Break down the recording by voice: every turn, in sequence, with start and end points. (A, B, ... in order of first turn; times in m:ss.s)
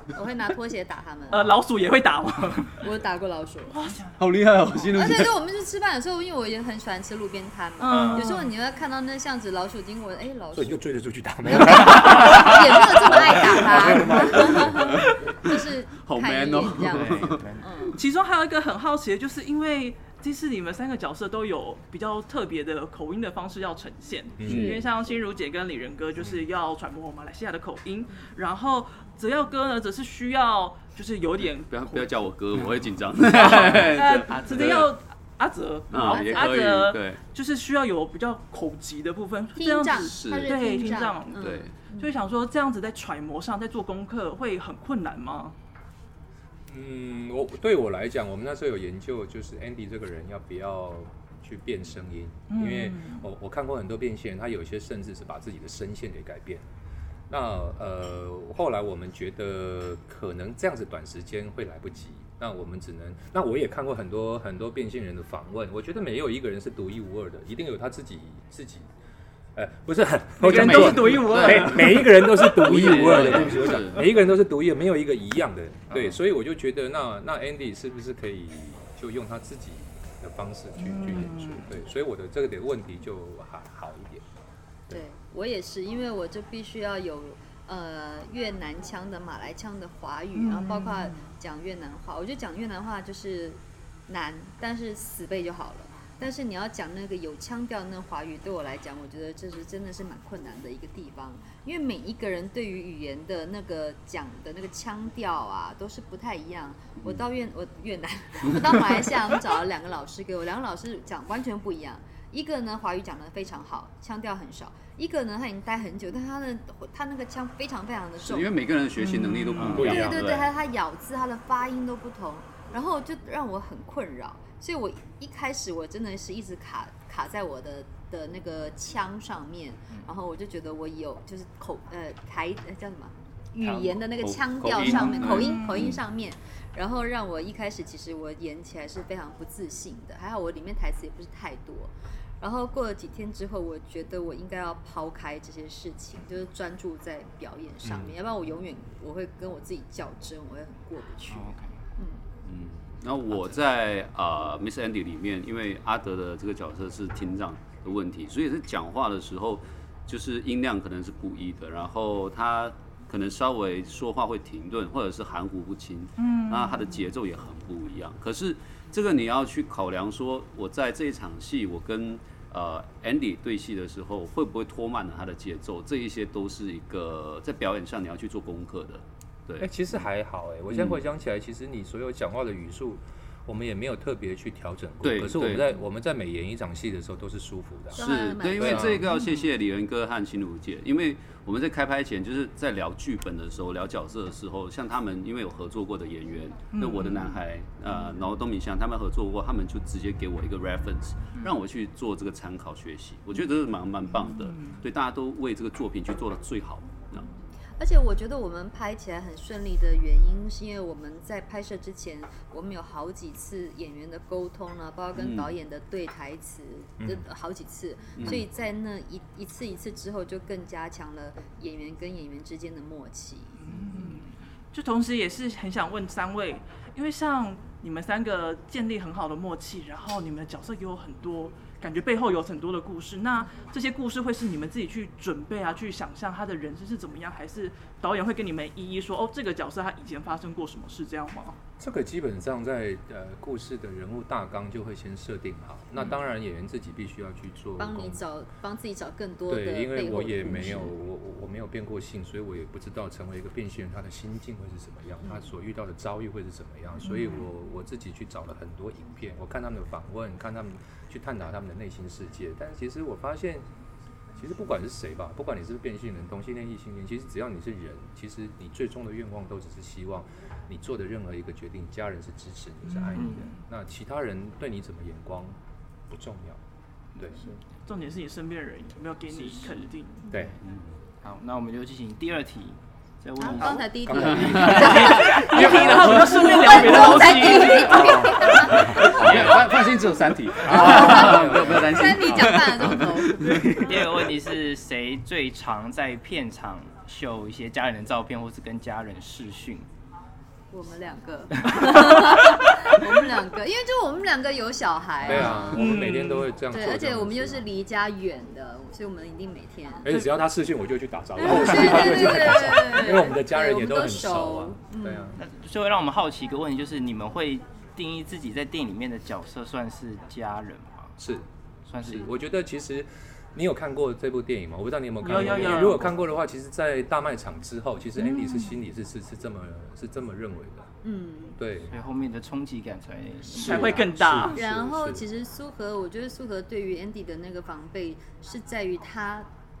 0:00.1-0:01.6 A
0:01.3-0:02.8 B
0:02.8-0:03.8 A
0:03.7-0:04.2 B
0:04.2-0:05.3 C
0:04.9-0:10.8 A
0:07.8-0:08.5 B
0:07.9-0:08.4 D
0:10.5-0:15.0 E
0:11.5-0:18.0 A
0:12.0-0:12.5 C
0:14.4-0:17.4 C
0:16.9-0:17.7 D
0:17.9-0:32.1 B
0:24.4-0:24.8 E
0:24.4-0:24.8 C
0:31.7-0:34.9 C
0:33.4-0:34.8 D
0:33.4-0:45.6 B
0:35.9-0:37.2 C
0:36.0-0:36.4 A
0:39.6-0:42.2 A
0:40.0-0:41.7 C
0:46.7-0:56.6 E
0:52.5-0:53.2 B
0:57.3-1:08.9 E
1:09.5-1:24.2 E
1:10.4-1:12.7 B
1:10.4-1:14.0 C
1:20.8-1:21.7 B
1:24.9-1:58.5 A
1:30.3-1:31.3 B
1:48.6-1:49.0 C
1:58.2-2:00.5 C
1:59.0-1:59.9 B
1:59.6-2:00.1 D
1:59.8-2:32.2 A
2:13.6-2:14.0 D
2:14.2-2:16.0 C
2:14.9-2:15.2 D
2:14.9-2:15.8 B
2:27.8-2:28.1 E
2:31.3-2:31.8 D
2:32.4-2:59.7 C
2:46.2-2:47.0 B
2:59.6-3:09.0 E
3:00.7-3:01.0 C
3:05.0-3:05.7 C
3:07.9-3:09.0 A
3:07.9-3:27.2 C
3:09.1-3:09.4 B
3:16.7-3:17.4 B
3:24.3-3:24.8 B
3:27.8-3:43.6 A
3:35.1-3:35.5 C
3:37.0-3:37.2 E
3:38.2-3:38.4 C
3:43.6-4:01.6 B
4:01.8-4:08.2 E
4:07.8-4:10.9 A
4:09.5-4:23.6 E
4:17.0-4:17.4 B
4:24.4-4:35.6 E
4:32.9-4:33.5 B
4:33.1-4:33.5 D
4:36.1-4:36.6 E
4:37.2-4:37.5 E
4:37.9-4:40.2 B
4:39.4-4:39.8 D
4:41.2-4:47.8 D
4:43.4-4:49.4 A
4:44.0-4:46.3 E
4:44.2-4:45.1 C
4:44.8-4:48.4 B
4:47.8-4:49.6 E
4:49.0-4:53.6 C
4:49.2-4:49.6 D
4:50.6-4:53.1 E
4:50.7-4:53.9 A
4:53.4-4:53.9 B
4:53.7-4:59.8 D
5:00.7-5:06.0 A
5:01.7-5:02.7 D
5:05.2-5:07.6 E
5:05.7-5:06.5 B
5:06.7-5:10.1 A
5:10.0-5:15.4 E
5:11.4-5:15.4 A
5:15.4-5:21.2 D
5:21.2-5:21.4 E
5:21.9-5:22.3 D
5:22.0-5:30.9 E
5:25.2-5:26.1 B
5:28.2-5:28.7 B
5:31.0-5:31.6 A
5:31.6-5:31.9 E
5:31.9-5:34.2 D
5:33.5-5:35.2 E
5:33.6-5:34.6 B
5:34.5-5:39.5 A